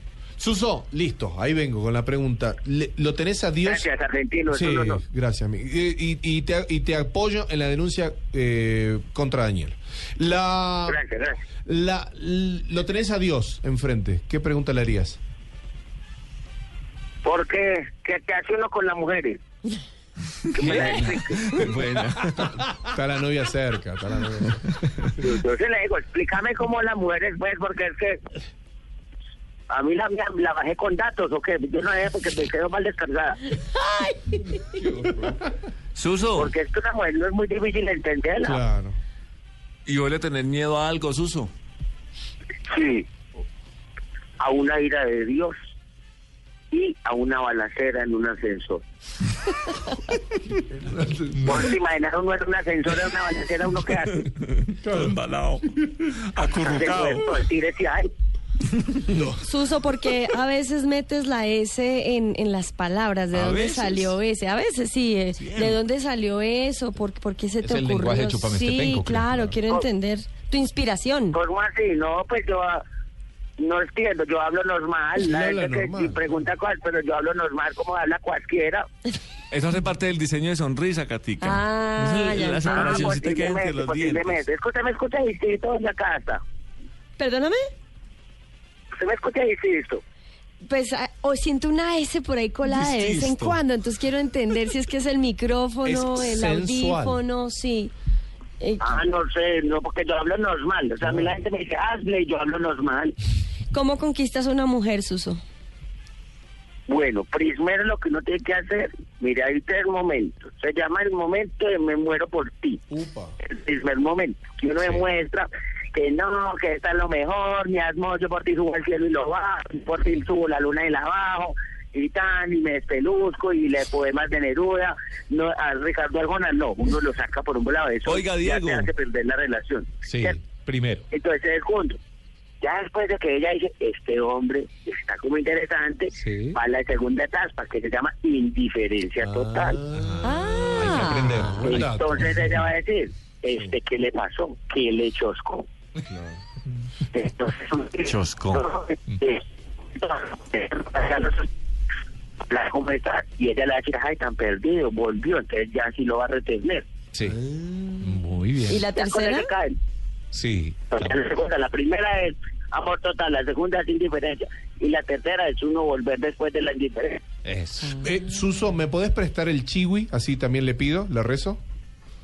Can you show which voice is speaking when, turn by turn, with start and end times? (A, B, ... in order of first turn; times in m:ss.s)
0:00.4-0:03.9 A
0:03.6-0:05.0 B
0:04.5-0:11.0 A
0:10.9-0:11.4 B
0:11.6-0:15.2 A
0:17.2-0:19.4 B
0:20.5-0:22.6 C
0:20.5-0:21.6 B
0:22.4-0:25.1 A
0:25.2-0:28.2 B
0:29.7-0:33.5 B
0:33.6-0:34.8 D
0:35.0-0:35.5 A
0:35.9-0:36.5 C
0:36.4-0:38.6 B
0:38.4-0:39.0 A
0:39.8-0:41.5 C
0:42.7-0:43.1 B
0:44.4-0:45.6 B
0:46.7-0:48.8 B
0:50.5-0:51.7 A
0:51.4-0:54.3 B
0:54.2-0:57.3 C
0:54.8-0:55.2 A
0:56.6-0:58.1 B
0:59.1-0:59.4 A
0:59.4-1:11.4 D
1:03.3-1:04.2 C
1:05.4-1:05.8 C
1:07.6-1:09.6 E
1:11.3-1:12.8 B
1:13.6-1:18.9 B
1:15.2-1:16.4 A
1:19.5-1:24.4 C
1:21.4-1:23.2 D
1:22.6-1:26.4 B
1:27.2-1:27.7 D
1:29.0-1:30.0 B
1:30.7-1:37.9 D
1:32.6-1:33.6 C
1:35.8-1:37.2 A
1:38.6-1:39.0 D
1:38.8-1:43.1 B
1:41.0-1:41.3 A
1:43.7-1:45.4 D
1:46.9-1:52.8 B
1:52.9-1:53.4 A
1:53.4-2:10.4 B
2:08.0-2:08.9 C
2:10.0-2:11.0 E
2:11.1-2:12.0 B
2:12.6-2:19.8 B
2:16.1-2:16.6 E
2:19.6-2:20.2 A
2:19.9-2:22.2 E
2:20.2-2:21.6 D
2:21.6-2:25.6 B
2:21.6-2:22.2 A
2:26.1-2:26.4 A
2:27.1-2:29.4 B
2:28.0-2:28.7 C
2:30.0-2:31.5 B
2:32.5-2:36.8 B
2:38.0-2:38.8 E
2:38.7-2:39.5 D
2:38.9-2:39.8 B
2:40.3-2:41.1 E
2:40.9-2:47.2 B
2:47.4-2:48.0 E
2:48.0-2:51.6 A